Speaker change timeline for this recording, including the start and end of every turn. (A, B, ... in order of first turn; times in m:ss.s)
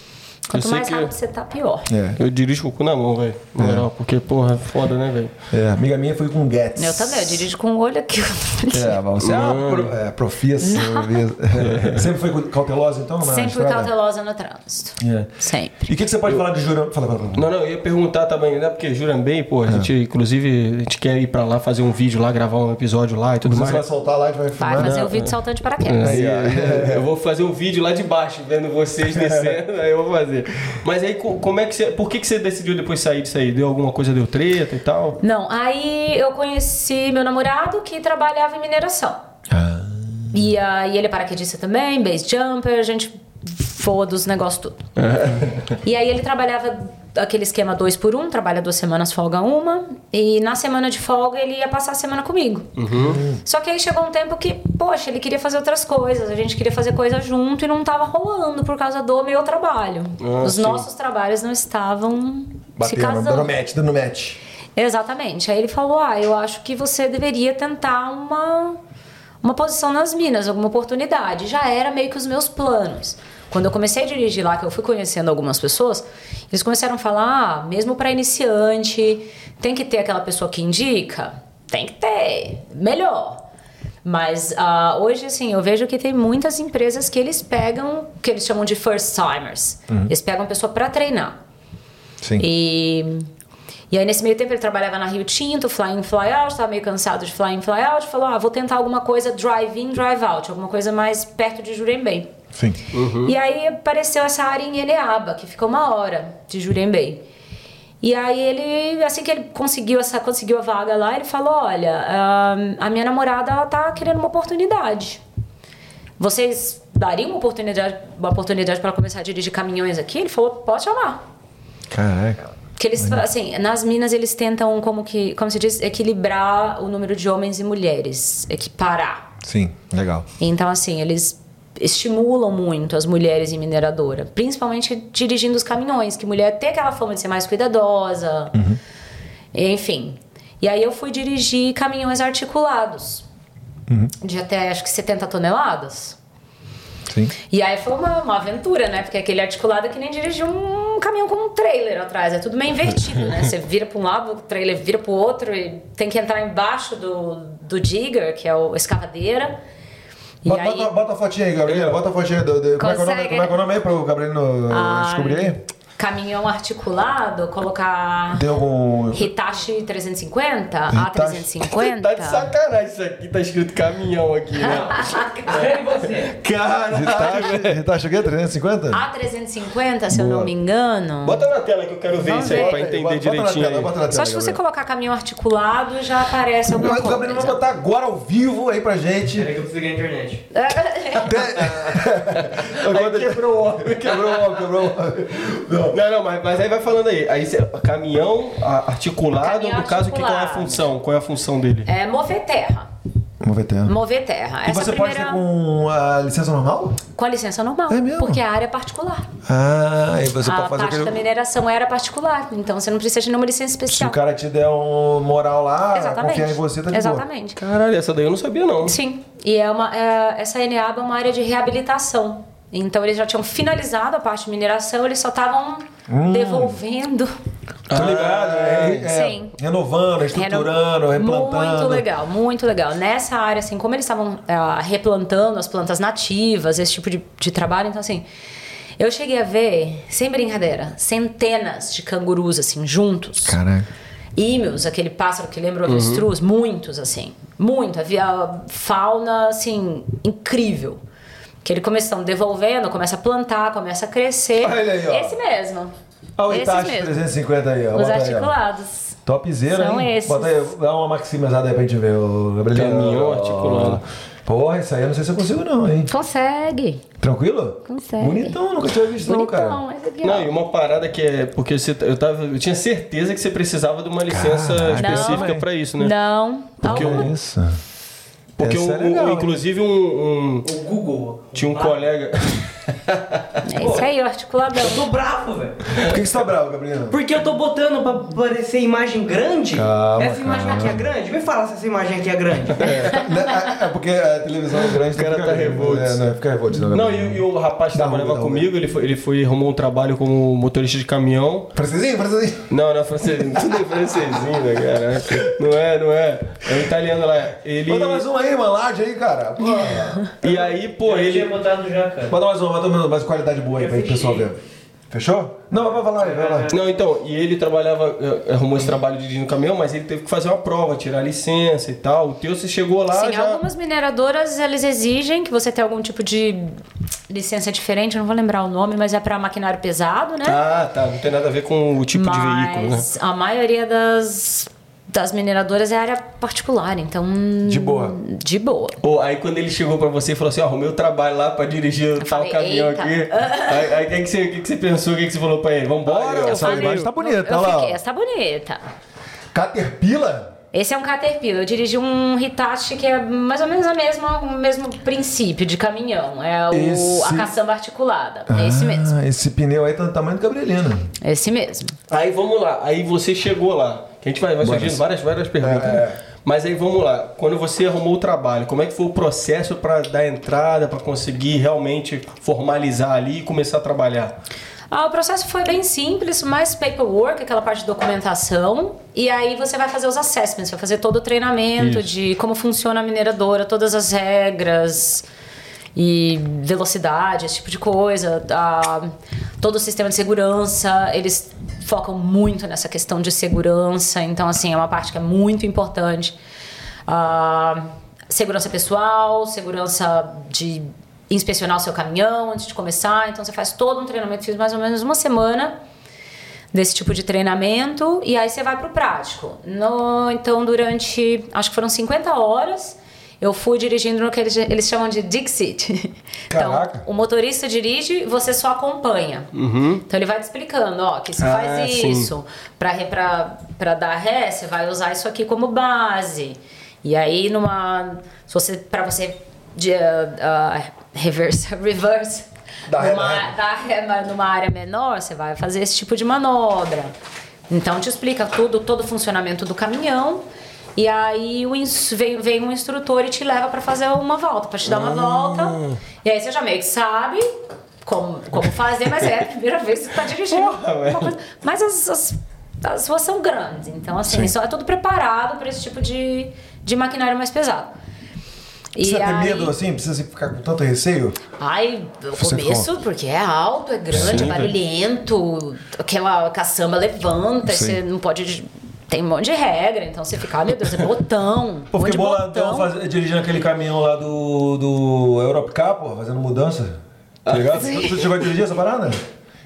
0:00.5-0:01.9 A
0:00.5-0:01.1 B
0:01.9-0:02.2 C
0:02.2-0:05.3 B
0:03.6-0:03.9 C
0:05.5-0:07.5 C
0:06.8-0:09.0 A
0:08.7-0:13.9 C
0:09.2-0:09.9 B
0:10.6-0:11.2 A
0:11.6-0:12.0 B
0:13.2-0:15.9 A
0:15.0-0:17.5 C
0:17.3-0:23.8 B
0:23.4-0:25.1 C
0:24.6-0:26.2 A
0:24.8-0:35.2 B
0:26.0-0:27.0 C
0:29.1-0:29.6 C
0:35.2-0:39.2 A
0:39.5-0:40.4 C
0:40.3-0:44.9 A
0:45.0-0:45.5 B
0:45.8-0:52.7 A
0:52.8-0:53.2 B
0:52.9-0:53.4 C
0:53.4-1:03.5 A
1:00.2-1:00.8 B
1:02.8-1:04.4 C
1:04.8-1:08.8 A
1:09.4-1:23.4 A
1:24.0-1:31.4 A
1:32.4-1:33.3 A
1:33.9-1:42.3 A
1:42.5-1:42.8 C
1:42.9-1:43.3 B
1:43.2-1:47.2 A
1:48.0-1:55.2 A
1:56.2-2:01.2 A
2:01.9-2:03.2 C
2:02.8-2:09.3 A
2:09.4-2:10.2 C
2:10.4-2:18.6 A
2:18.5-2:18.8 C
2:19.5-2:23.2 A
2:23.9-2:24.1 C
2:24.2-2:26.2 A
2:27.1-2:27.3 C
2:27.5-2:39.6 A
2:40.4-2:40.9 A
2:40.4-2:45.6 C
2:41.7-2:41.9 B
2:42.8-2:43.5 A
2:44.7-2:48.4 A
2:48.3-2:49.3 C
2:49.1-2:52.5 A
2:50.9-2:51.6 C
2:51.7-2:57.8 B
2:54.7-2:55.6 A
2:55.4-2:56.4 D
2:56.9-2:59.0 C
2:58.9-3:01.5 A
3:00.1-3:00.5 C
3:01.2-3:03.9 B
3:02.2-3:02.8 A
3:02.2-3:04.6 C
3:04.1-3:07.6 A
3:06.7-3:09.5 C
3:09.3-3:10.4 D
3:10.5-3:11.6 A
3:11.2-3:16.0 C
3:12.4-3:14.8 B
3:15.9-3:21.9 B
3:19.3-3:20.8 A
3:21.8-3:22.9 A
3:23.4-3:23.9 C
3:23.8-3:25.4 A
3:24.6-3:27.0 C
3:27.2-3:29.3 A
3:27.9-3:28.4 C
3:29.4-3:31.2 C
3:30.4-3:34.2 A
3:33.9-3:37.2 C
3:35.9-3:37.6 A
3:37.6-3:39.0 B
3:38.8-3:47.3 A
3:46.1-3:46.8 C
3:47.9-3:49.1 B
3:47.9-3:52.0 C
3:49.0-3:49.5 A
3:50.3-3:58.2 A
3:59.0-4:03.6 A
4:03.4-4:03.9 C
4:04.4-4:11.0 A
4:05.8-4:06.2 B
4:11.6-4:15.9 A
4:14.6-4:15.4 C
4:16.4-4:18.5 C
4:16.5-4:17.2 A
4:17.9-4:19.2 A
4:19.2-4:26.1 C
4:19.7-4:20.7 A
4:22.7-4:24.0 B
4:26.1-4:27.0 A
4:27.2-4:29.8 C
4:27.8-4:28.6 A
4:29.2-4:30.5 A
4:30.2-4:36.2 B
4:34.3-4:35.6 C
4:35.0-4:37.3 A
4:36.8-4:37.3 B
4:36.8-4:37.8 C
4:38.6-4:40.7 B
4:38.6-4:39.6 C
4:40.6-4:42.0 D
4:41.5-4:43.2 B
4:43.6-4:45.0 A
4:43.7-4:44.1 D
4:44.7-4:46.1 D
4:46.0-4:47.2 C
4:47.1-4:53.2 D
4:49.7-4:51.1 C
4:52.8-4:58.7 C
4:55.0-4:56.2 B
4:56.8-5:01.7 B
5:01.7-5:02.7 C
5:02.7-5:08.2 B
5:07.8-5:10.3 C
5:10.4-5:11.5 B
5:10.4-5:12.4 D
5:12.3-5:14.6 C
5:13.8-5:14.5 D
5:15.1-5:16.7 C
5:16.2-5:16.7 D
5:16.7-5:23.6 B
5:23.1-5:30.6 A
5:30.4-5:33.1 B
5:32.1-5:39.0 A
5:37.6-5:38.2 C
5:39.0-5:47.1 B
5:42.2-5:44.0 A
5:46.0-5:48.0 C
5:46.5-5:48.8 A
5:49.5-5:50.5 C
5:50.7-5:59.1 A
5:56.7-5:57.5 C
5:58.5-6:01.1 C
6:01.2-6:01.9 A
6:02.1-6:14.3 B
6:04.6-6:05.0 C
6:05.6-6:06.2 C
6:14.9-6:25.2 A
6:21.8-6:22.1 B
6:25.9-6:36.4 A
6:37.1-6:45.8 A
6:46.7-6:59.5 A
6:56.5-6:57.0 C
6:59.5-7:00.0 B
7:00.1-7:17.1 A
7:01.4-7:02.3 B
7:12.9-7:13.5 C
7:17.7-7:20.4 A
7:21.0-7:27.5 A
7:24.9-7:26.0 B
7:28.0-7:37.9 A
7:30.5-7:31.3 B
7:34.3-7:34.5 C
7:38.9-7:39.7 A
7:39.0-7:41.4 C
7:41.6-7:52.9 A
7:42.4-7:42.9 C
7:44.1-7:44.7 C
7:44.1-7:44.7 B
7:47.6-7:48.0 C
7:51.9-7:59.2 C
7:57.4-7:58.4 B